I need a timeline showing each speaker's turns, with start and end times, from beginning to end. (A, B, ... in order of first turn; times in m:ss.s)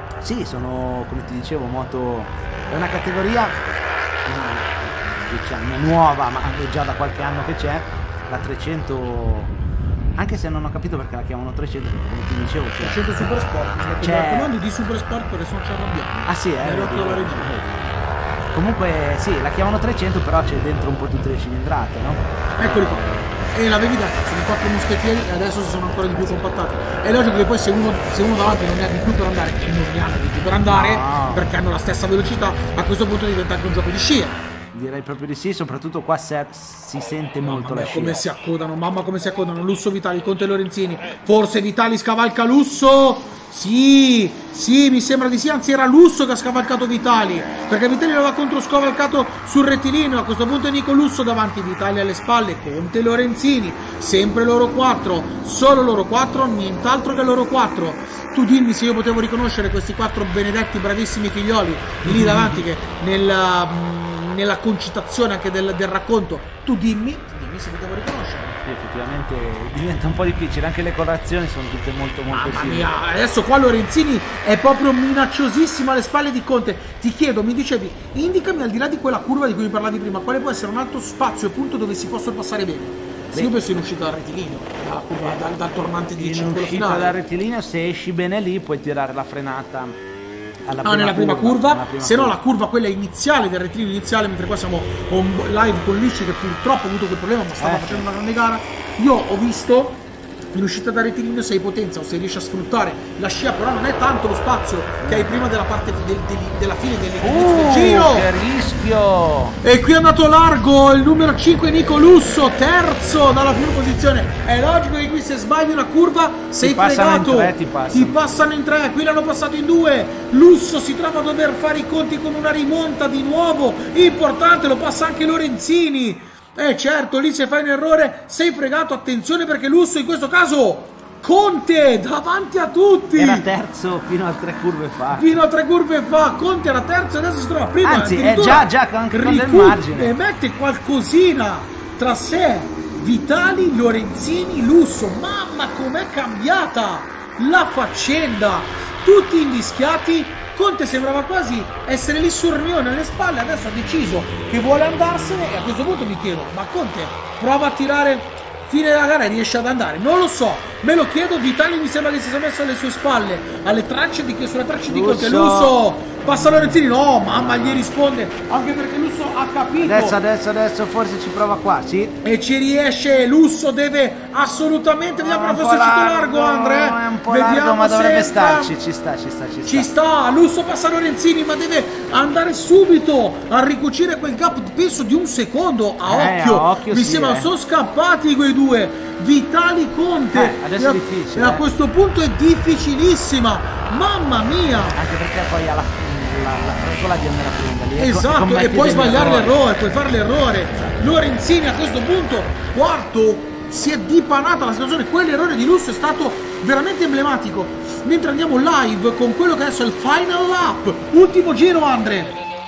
0:00.2-0:03.6 A
0:04.2-0:09.5 A
0:10.2-0:13.3 A
0:12.8-0:17.5 B
0:14.0-0:14.5 A
0:16.2-0:23.4 A
0:22.6-0:34.4 B
0:30.7-0:31.5 A
0:34.7-0:38.2 A
0:37.4-1:08.6 B
1:02.0-1:02.6 A
1:08.6-1:12.9 A
1:12.3-1:27.1 B
1:26.2-1:30.0 A
1:30.6-1:32.4 A
1:30.8-1:48.3 B
1:37.6-1:38.1 A
1:45.0-1:45.4 A
1:47.2-1:49.6 A
1:49.6-2:13.4 B
1:56.6-1:58.2 A
2:13.1-2:15.4 A
2:15.1-2:50.2 B
2:17.8-2:20.1 A
2:44.9-2:45.8 A
2:46.3-2:46.7 A
2:47.3-2:47.9 A
2:49.8-2:52.2 A
2:52.2-2:58.7 B
2:55.2-2:59.9 A
2:59.6-3:15.0 B
3:06.0-3:07.5 A
3:10.3-3:11.6 A
3:14.9-3:19.6 A
3:18.0-3:32.4 B
3:20.8-3:21.0 A